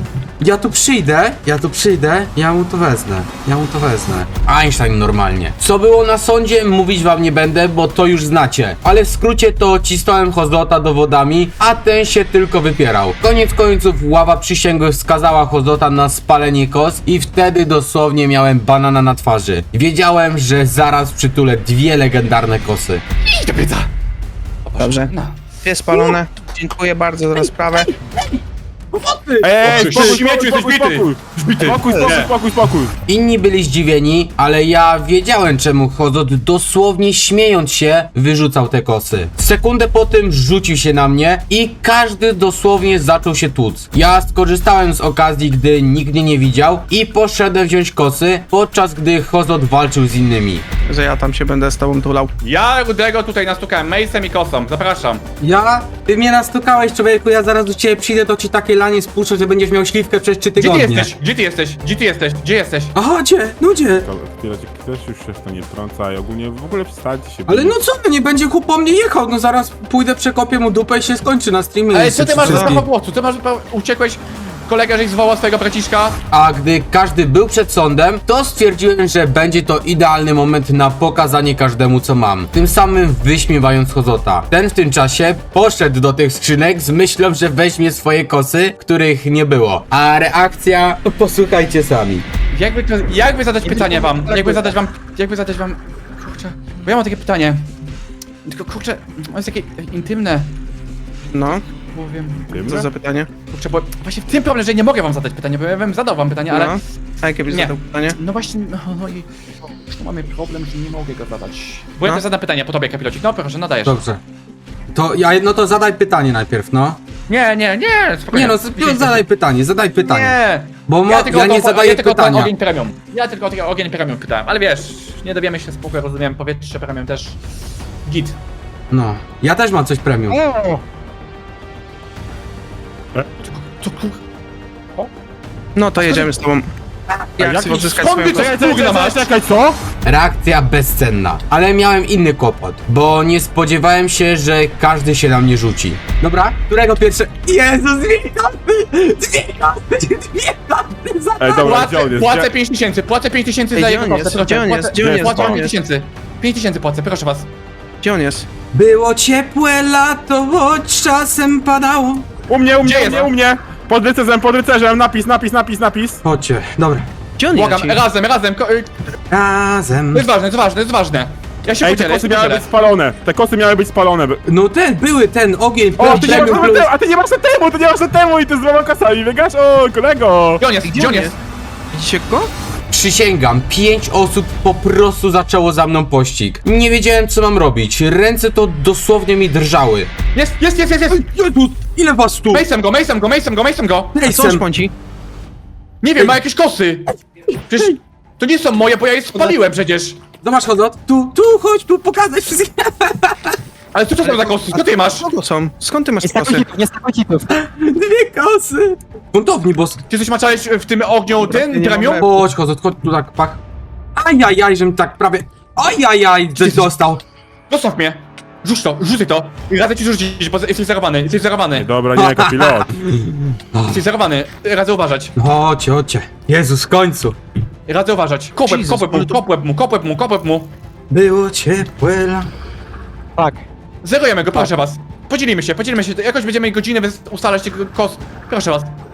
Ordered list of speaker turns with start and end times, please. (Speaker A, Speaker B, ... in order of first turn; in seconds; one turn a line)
Speaker A: 0.4-23.0
Speaker B: 23.2-23.9
Speaker B: 24.7-25.4
Speaker C: 24.8-25.1
Speaker C: 25.6-27.9
Speaker A: 27.4-28.4
Speaker A: 28.9-30.2
Speaker D: 29.4-32.9
Speaker B: 29.6-32.3
Speaker A: 33.1-50.6
Speaker C: 50.9-52.3
Speaker B: 52.4-55.2
Speaker A: 55.4-61.1
Speaker B: 60.6-62.9
Speaker A: 63.0-64.1
Speaker D: 64.0-67.8
Speaker A: 67.5-72.8
Speaker B: 71.9-76.2
Speaker C: 72.4-72.7
Speaker A: 76.3-92.2
Speaker B: 92.5-97.6
Speaker E: 93.8-94.6
Speaker B: 98.5-100.5
Speaker C: 101.3-101.6
Speaker B: 101.9-102.9
Speaker D: 102.5-102.9
Speaker C: 102.7-103.3
Speaker B: 103.5-106.8
Speaker C: 106.5-108.2
Speaker B: 107.5-109.3
Speaker B: 109.9-114.0
Speaker A: 113.8-114.2
Speaker A: 114.9-117.0
Speaker B: 117.3-119.2
Speaker A: 118.3-122.5
Speaker B: 120.0-127.4
Speaker B: 128.1-128.4
Speaker A: 128.9-130.4
Speaker E: 130.3-130.8
Speaker B: 133.4-134.2
Speaker C: 135.8-136.7
Speaker C: 137.4-138.7
Speaker D: 137.4-139.8
Speaker B: 138.0-139.3
Speaker A: 140.0-151.7
Speaker D: 151.4-152.5
Speaker B: 151.6-157.5
Speaker C: 153.7-155.8
Speaker D: 155.0-155.7
Speaker C: 158.0-158.5
Speaker A: 158.7-162.3
Speaker D: 162.5-166.2
Speaker B: 162.8-163.3
Speaker A: 166.2-167.1
Speaker C: 167.4-168.0
Speaker B: 167.5-168.9
Speaker A: 169.3-170.3
Speaker B: 170.1-172.7
Speaker D: 171.8-174.4
Speaker A: 174.5-176.9
Speaker D: 176.0-180.6
Speaker C: 176.1-176.7
Speaker B: 176.1-176.5
Speaker B: 180.6-181.4
Speaker C: 180.8-181.3
Speaker C: 181.9-182.5
Speaker A: 182.9-190.1
Speaker B: 190.3-191.3
Speaker A: 191.1-192.7
Speaker B: 192.5-194.1
Speaker A: 194.1-194.6
Speaker C: 194.2-194.9
Speaker B: 196.0-197.1
Speaker A: 197.6-197.9
Speaker B: 197.7-200.2
Speaker A: 200.4-203.6
Speaker B: 203.9-205.3
Speaker C: 204.2-206.7
Speaker E: 206.2-207.5
Speaker A: 207.5-210.0
Speaker B: 210.1-212.3
Speaker C: 211.4-212.4
Speaker A: 212.2-213.6
Speaker A: 214.2-217.2
Speaker B: 216.6-216.9
Speaker B: 217.7-221.9
Speaker D: 221.7-222.9
Speaker A: 222.2-224.0
Speaker B: 223.9-225.3
Speaker A: 225.4-227.4
Speaker B: 227.9-230.7
Speaker C: 228.7-229.4
Speaker A: 231.1-232.5
Speaker E: 233.4-233.6
Speaker B: 234.0-238.9